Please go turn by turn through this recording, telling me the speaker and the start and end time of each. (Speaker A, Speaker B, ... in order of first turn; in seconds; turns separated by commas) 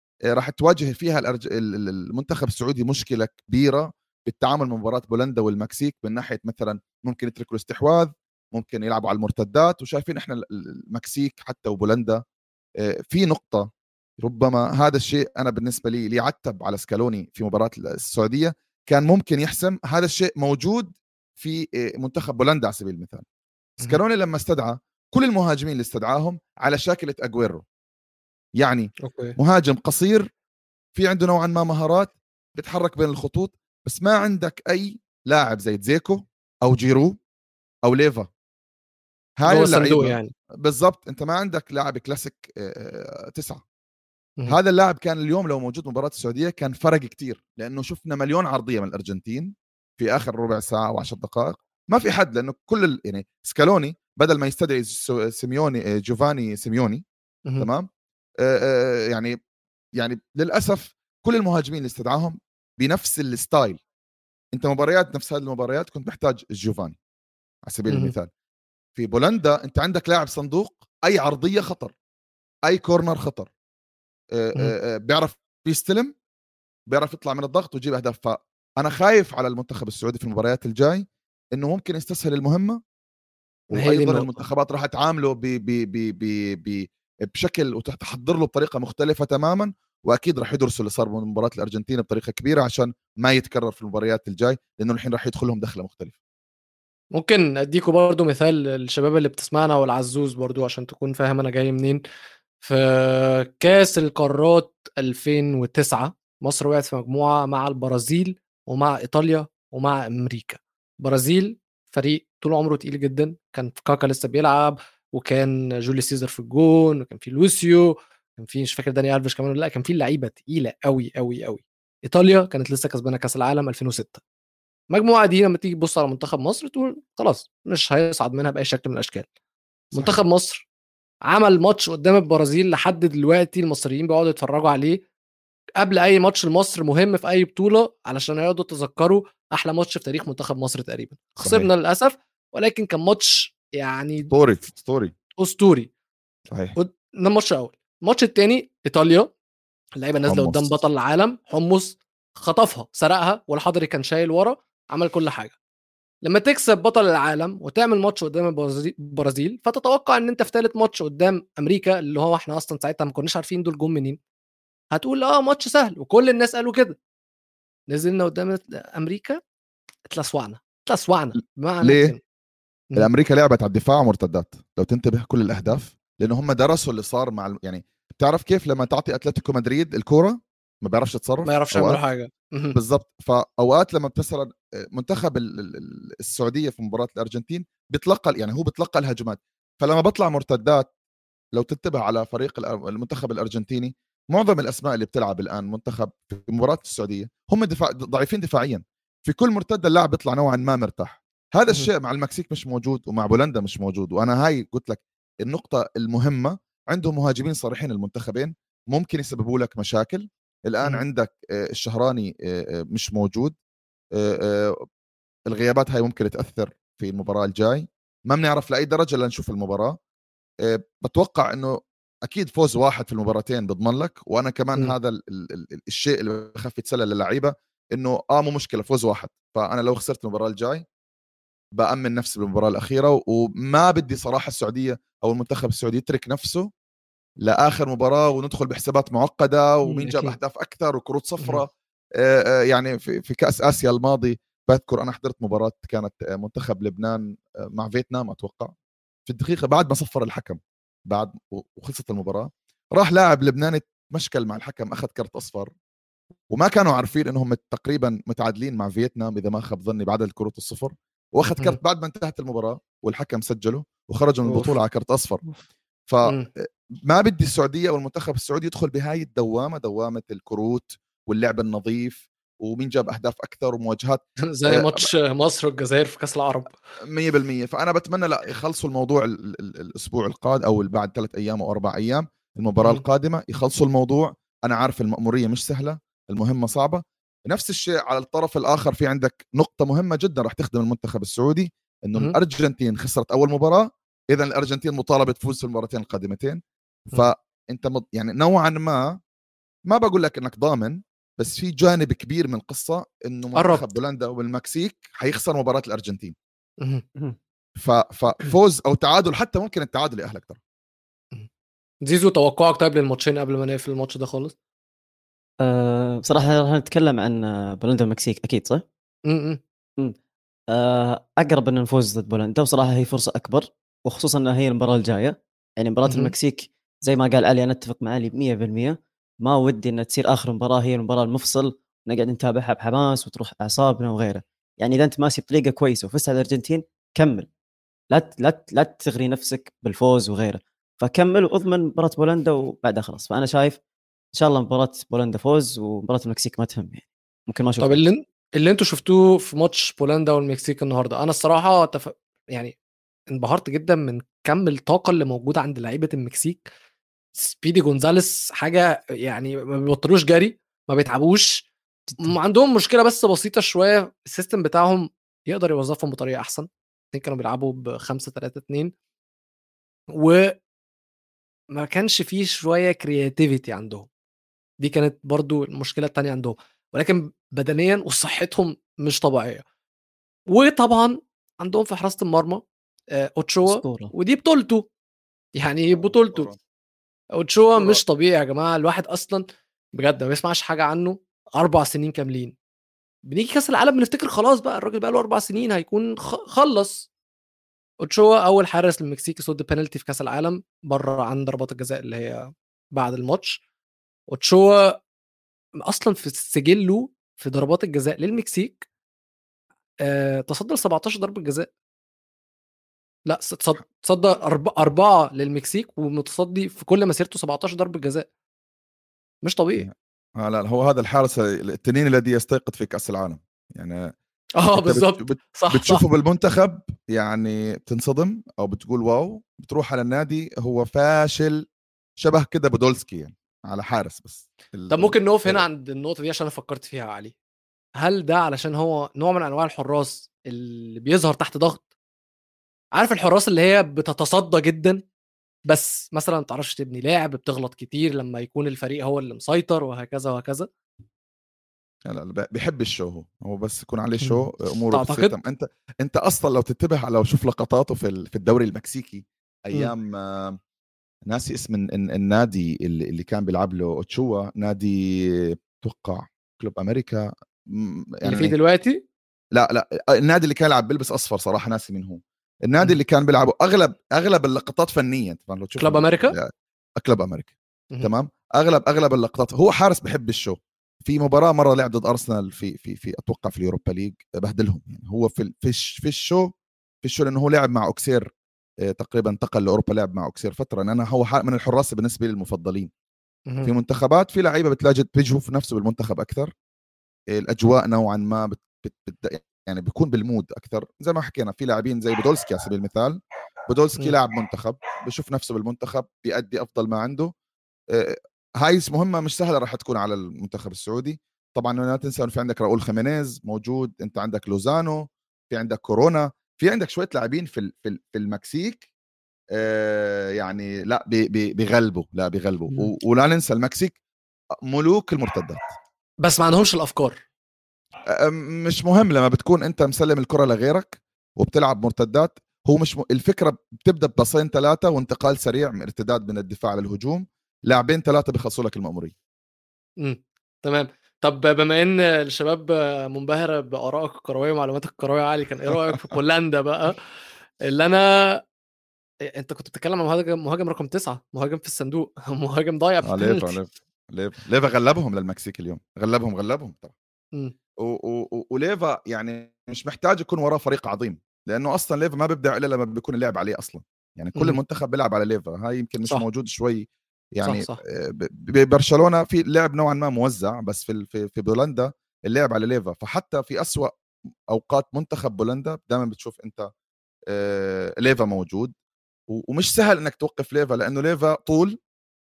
Speaker A: 0.3-12.2, Speaker A: 12.8-23.2, Speaker A: 23.8-27.6, Speaker A: 28.6-30.3, Speaker B: 29.1-29.4, Speaker A: 30.9-37.2, Speaker A: 37.8-38.3, Speaker A: 39.4-43.6, Speaker B: 39.5-40.3, Speaker A: 44.5-57.0, Speaker A: 57.6-57.9, Speaker A: 58.4-59.3, Speaker A: 60.0-63.8, Speaker A: 64.5-67.0, Speaker A: 67.7-68.3, Speaker A: 69.0-71.9, Speaker A: 72.7-73.5, Speaker A: 74.3-76.1, Speaker A: 76.9-82.8, Speaker A: 83.7-96.1, Speaker B: 83.7-84.3, Speaker B: 97.1-102.0, Speaker B: 102.6-124.2, Speaker B: 124.9-129.2, Speaker B: 129.9-130.6, Speaker B: 131.3-135.0, Speaker B: 135.8-144.3, Speaker A: 141.4-141.7, Speaker A: 144.3-145.1, Speaker B: 145.4-145.9, Speaker A: 146.5-146.8, Speaker B: 146.8-149.3, Speaker B: 150.0-155.5, Speaker A: 150.3-150.8, Speaker B: 156.2-164.2, Speaker B: 164.9-167.0, Speaker B: 167.9-169.4, Speaker B: 170.1-172.2, Speaker A: 171.8-172.2, Speaker A: 172.9-182.0, Speaker B: 181.4-182.8, Speaker A: 182.7-190.9, Speaker A: 191.5-213.6, Speaker A: 214.2-214.8, Speaker A: 215.5-220.0, Speaker A: 220.6-221.7, Speaker A: 222.2-230.8, Speaker A: 231.8-236.7, Speaker A: 237.4-248.7, Speaker B: 239.8-240.4, Speaker A: 249.3-255.7, Speaker A: 256.5-265.4, Speaker B: 264.4-264.8, Speaker A: 266.1-275.1, Speaker B: 274.5-276.7, Speaker A: 277.1-296.6, Speaker A: 297.1-299.1, Speaker A: 299.9-306.3, Speaker B: 303.6-303.8, Speaker A: 307.8-310.6, Speaker B: 312.1-314.5, Speaker C: 315.6-318.8, Speaker B: 319.3-319.6, Speaker C: 320.7-337.5, Speaker B: 326.0-326.3, Speaker C: 338.1-343.8, Speaker C: 344.4-348.0, Speaker B: 347.8-352.7, Speaker B: 353.3-356.6, Speaker B: 357.4-361.6, Speaker C: 362.1-362.4, Speaker B: 362.2-368.9, Speaker B: 370.1-370.5, Speaker B: 371.8-374.1, Speaker B: 374.8-379.6, Speaker B: 380.5-382.6, Speaker B: 383.1-384.9, Speaker C: 383.6-384.1, Speaker B: 385.6-386.5, Speaker A: 385.9-386.6, Speaker B: 387.4-389.4, Speaker B: 390.0-392.5, Speaker B: 393.3-397.1, Speaker B: 398.0-403.6, Speaker B: 404.3-404.9, Speaker B: 405.8-408.8, Speaker B: 410.0-411.7, Speaker B: 413.3-418.2, Speaker B: 419.4-419.9, Speaker A: 419.8-424.1, Speaker B: 424.6-426.0, Speaker A: 424.7-431.6, Speaker A: 432.2-435.6, Speaker B: 434.9-437.3, Speaker B: 438.0-441.8, Speaker B: 442.9-445.0, Speaker B: 445.7-450.7, Speaker A: 452.1-460.6, Speaker B: 454.2-455.3, Speaker A: 461.3-468.5, Speaker B: 468.2-469.0, Speaker A: 469.5-486.5, Speaker B: 475.8-476.4, Speaker A: 487.0-488.3, Speaker A: 488.8-492.9, Speaker A: 493.6-496.5, Speaker A: 497.3-507.3, Speaker A: 507.9-518.9, Speaker A: 519.5-524.0, Speaker A: 524.7-525.6, Speaker B: 526.2-527.2, Speaker A: 528.1-539.1, Speaker B: 540.0-547.0, Speaker B: 547.7-548.4, Speaker B: 549.3-553.5, Speaker A: 553.0-556.9, Speaker A: 557.8-573.9, Speaker B: 567.4-567.8, Speaker A: 574.5-576.7, Speaker A: 577.3-578.7, Speaker A: 579.3-581.8